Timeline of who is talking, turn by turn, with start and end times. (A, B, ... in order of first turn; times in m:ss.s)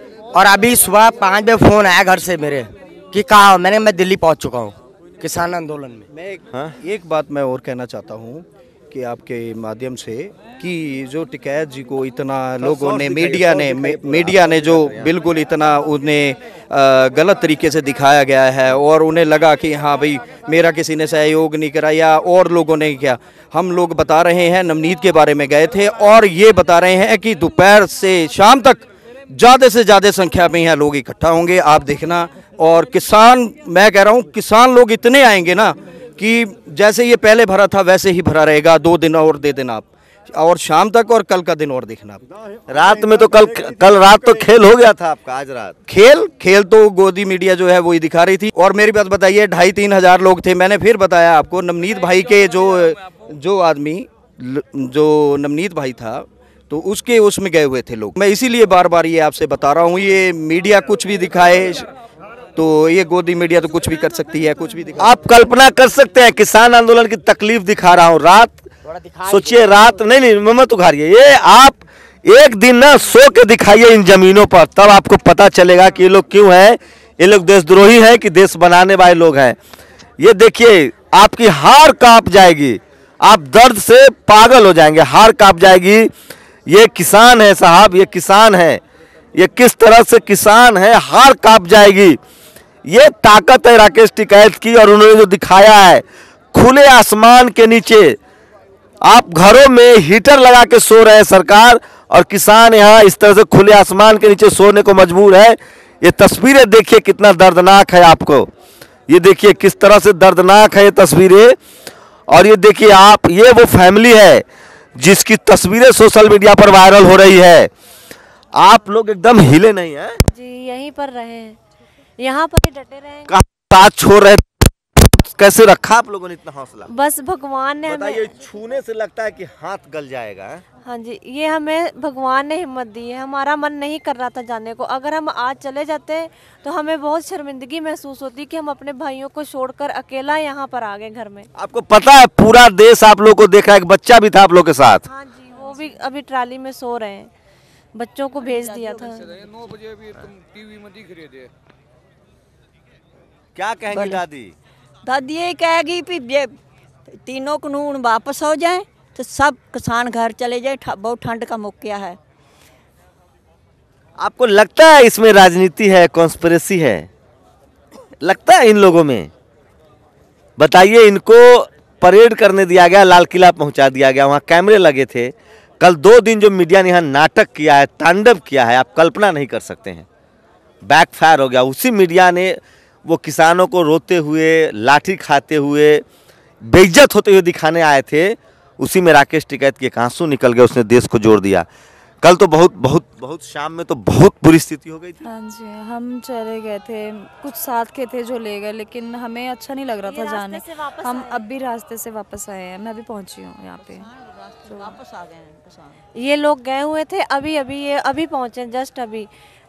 0:00.3-0:06.0 A
0:06.1-0:42.2 B
0:12.6-0:15.1 C
0:42.7-0:45.8 C
0:45.9-1:01.9 B
1:02.6-1:05.2 B
1:05.0-1:08.7 C
1:08.8-1:09.7 A
1:09.2-1:19.6 C
1:20.2-1:26.1 C
1:26.7-1:28.8 C
1:29.4-1:32.2 C
1:32.9-1:38.2 C
1:39.0-1:48.5 C
1:49.1-1:51.6 C
1:52.3-1:54.4 C
1:55.0-1:57.7 C
1:58.6-2:00.2 C
2:00.3-2:01.6 D
2:02.2-2:03.3 D
2:03.3-2:06.9 C
2:06.9-2:08.3 D
2:07.8-2:10.6 C
2:10.8-2:21.5 D
2:21.5-2:25.1 C
2:25.1-2:27.3 D
2:27.9-2:29.2 D
2:28.5-2:29.2 E
2:33.5-2:34.5 C
2:33.9-2:34.2 E
2:35.0-2:36.5 E
2:37.2-2:42.2 E
2:44.2-2:47.1 C
2:48.2-2:49.3 C
2:50.6-3:00.0 C
3:00.8-3:06.0 C
3:06.6-3:11.6 C
3:12.2-3:15.2 C
3:15.2-3:24.1 F
3:20.0-3:21.4 D
3:24.6-3:25.0 F
3:25.1-3:25.8 E
3:26.2-3:29.3 D